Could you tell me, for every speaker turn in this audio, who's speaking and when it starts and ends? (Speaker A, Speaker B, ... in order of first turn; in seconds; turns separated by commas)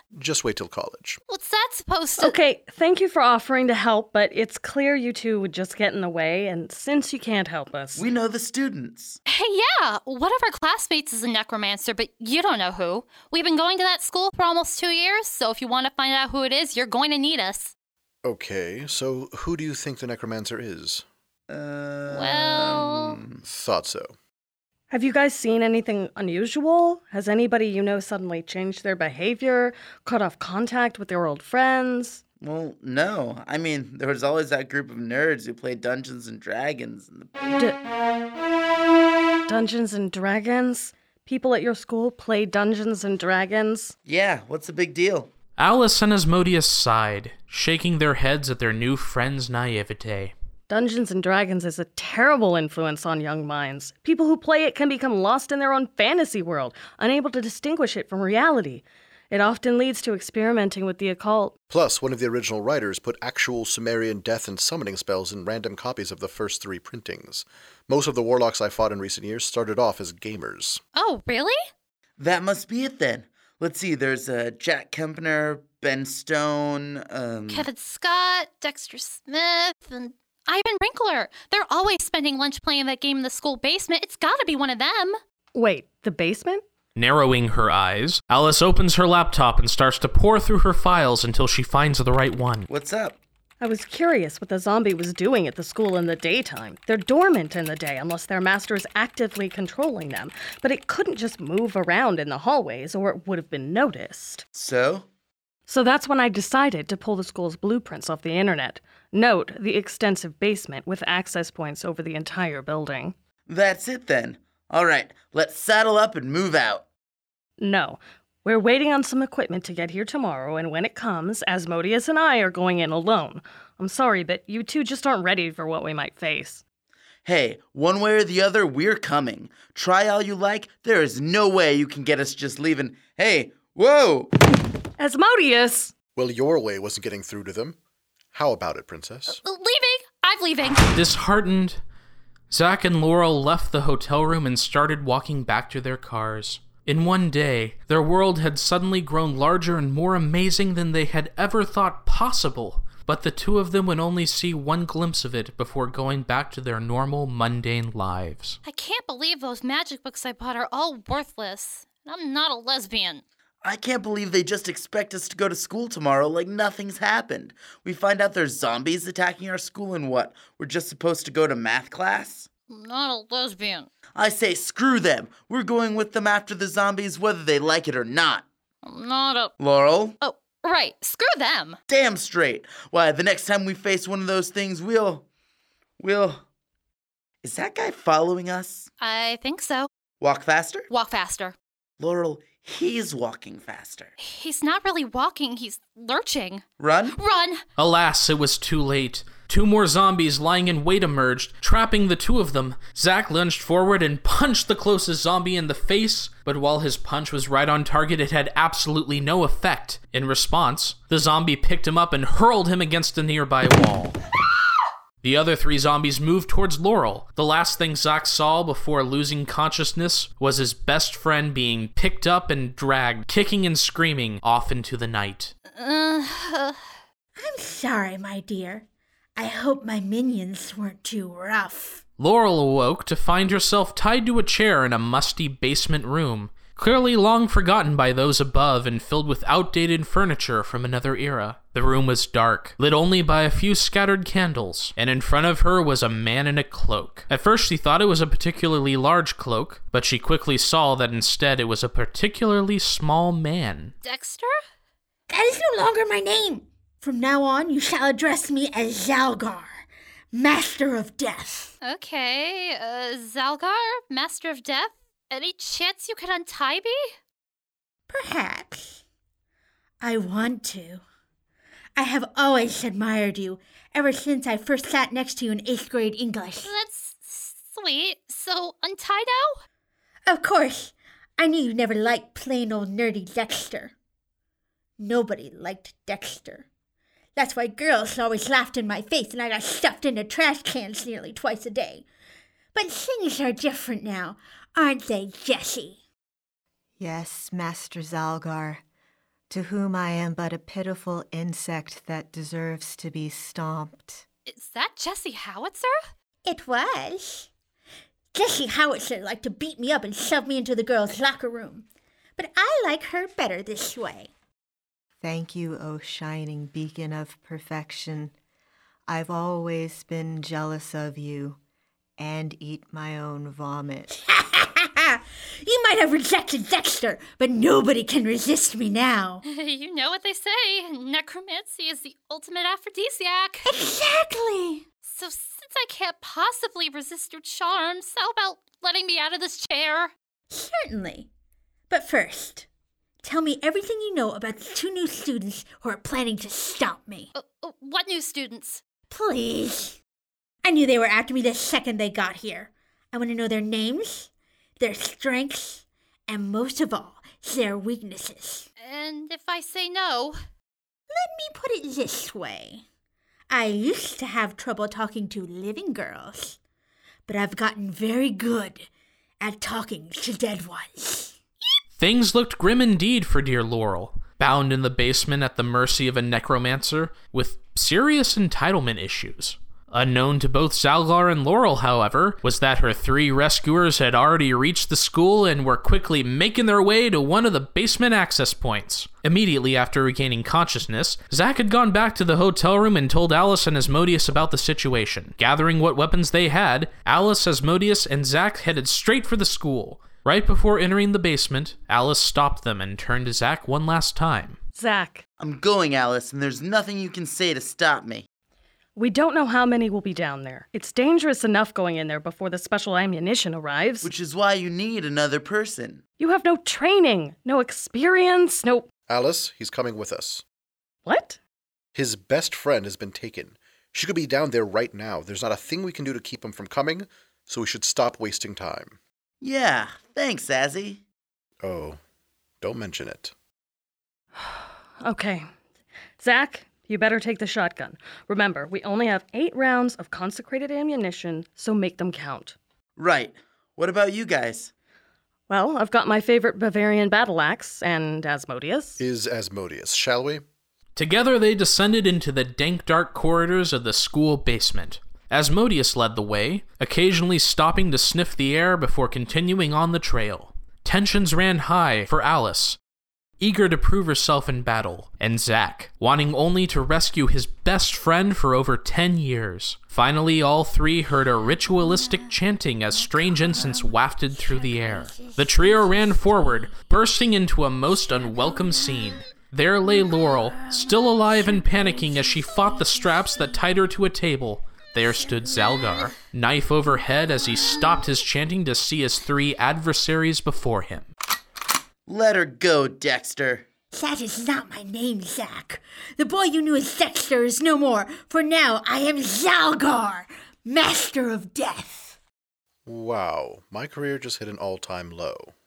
Speaker A: 0.1-1.2, Speaker B: 1.3-2.4, Speaker C: 2.2-8.1, Speaker D: 8.0-9.2, Speaker B: 9.3-17.7, Speaker A: 18.2-21.1, Speaker D: 21.5-23.4, Speaker B: 22.1-23.2, Speaker A: 23.4-24.1, Speaker C: 24.9-32.2, Speaker D: 32.4-37.4, Speaker C: 37.5-37.8, Speaker C: 39.5-44.0, Speaker D: 44.1-45.3, Speaker E: 45.6-50.3, Speaker C: 50.7-61.5, Speaker A: 61.7-70.8, Speaker B: 71.0-71.6, Speaker D: 72.2-77.7, Speaker B: 77.5-85.2, Speaker C: 85.5-86.6, Speaker E: 87.0-92.7, Speaker D: 92.7-93.2, Speaker C: 93.6-104.4, Speaker D: 104.5-105.1, Speaker C: 105.7-113.1, Speaker D: 113.5-116.8, Speaker C: 117.6-126.6, Speaker D: 127.2-134.3, Speaker C: 135.0-135.9, Speaker A: 136.2-137.8, Speaker A: 138.3-139.4, Speaker B: 139.3-140.9, Speaker E: 140.9-141.8, Speaker E: 142.5-158.6, Speaker B: 158.7-163.2, Speaker D: 163.6-172.5, Speaker B: 172.7-173.9, Speaker D: 174.2-178.5, Speaker B: 178.8-179.5, Speaker D: 179.6-180.2, Speaker B: 180.2-181.8, Speaker D: 181.9-185.3, Speaker D: 186.0-186.4, Speaker D: 187.4-188.9, Speaker B: 189.0-189.9, Speaker D: 190.2-190.9, Speaker B: 190.9-191.6, Speaker D: 192.0-194.2, Speaker B: 194.2-197.6, Speaker D: 196.8-197.2, Speaker E: 197.8-214.2, Speaker E: 215.2-225.5, Speaker B: 225.7-226.8, Speaker F: 227.4-232.0, Speaker E: 232.2-253.9, Speaker B: 254.0-254.5, Speaker F: 255.3-261.7, Speaker B: 261.8-267.1, Speaker F: 268.1-269.0, Speaker F: 270.0-271.0, Speaker F: 272.0-276.7, Speaker B: 276.6-279.6, Speaker F: 280.3-283.9, Speaker F: 285.0-286.7, Speaker F: 287.4-292.1, Speaker F: 292.7-296.0, Speaker G: 297.0-298.8, Speaker G: 299.5-304.2, Speaker B: 304.5-305.9, Speaker F: 306.4-307.5, Speaker F: 308.3-311.9, Speaker F: 312.4-314.3, Speaker G: 315.2-318.3, Speaker G: 319.1-321.6, Speaker G: 322.2-324.1, Speaker F: 324.1-329.4, Speaker B: 329.4-333.7, Speaker F: 333.6-334.9, Speaker B: 335.1-340.1, Speaker F: 340.5-341.3, Speaker F: 341.9-342.7, Speaker F: 343.2-347.3, Speaker B: 347.4-348.8, Speaker F: 349.1-350.0, Speaker F: 350.6-358.7, Speaker B: 358.8-360.4, Speaker F: 361.1-362.8, Speaker F: 363.5-366.6, Speaker F: 367.3-368.9, Speaker F: 369.4-371.4, Speaker E: 372.0-404.6, Speaker C: 404.8-405.2, Speaker D: 405.4-408.3, Speaker C: 409.0-414.1, Speaker D: 414.0-416.0, Speaker C: 416.2-418.9, Speaker A: 419.1-420.4, Speaker C: 421.1-421.4, Speaker A: 421.9-429.0, Speaker D: 429.4-431.0, Speaker A: 431.6-432.0, Speaker A: 432.6-433.3, Speaker C: 434.4-435.5, Speaker C: 436.2-442.6, Speaker D: 443.0-444.7, Speaker C: 445.5-449.0, Speaker A: 449.0-450.4, Speaker E: 451.0-462.8, Speaker E: 463.4-491.1, Speaker F: 473.5-473.9, Speaker F: 474.5-476.1, Speaker D: 492.1-493.7, Speaker F: 493.9-502.2, Speaker A: 502.9-505.5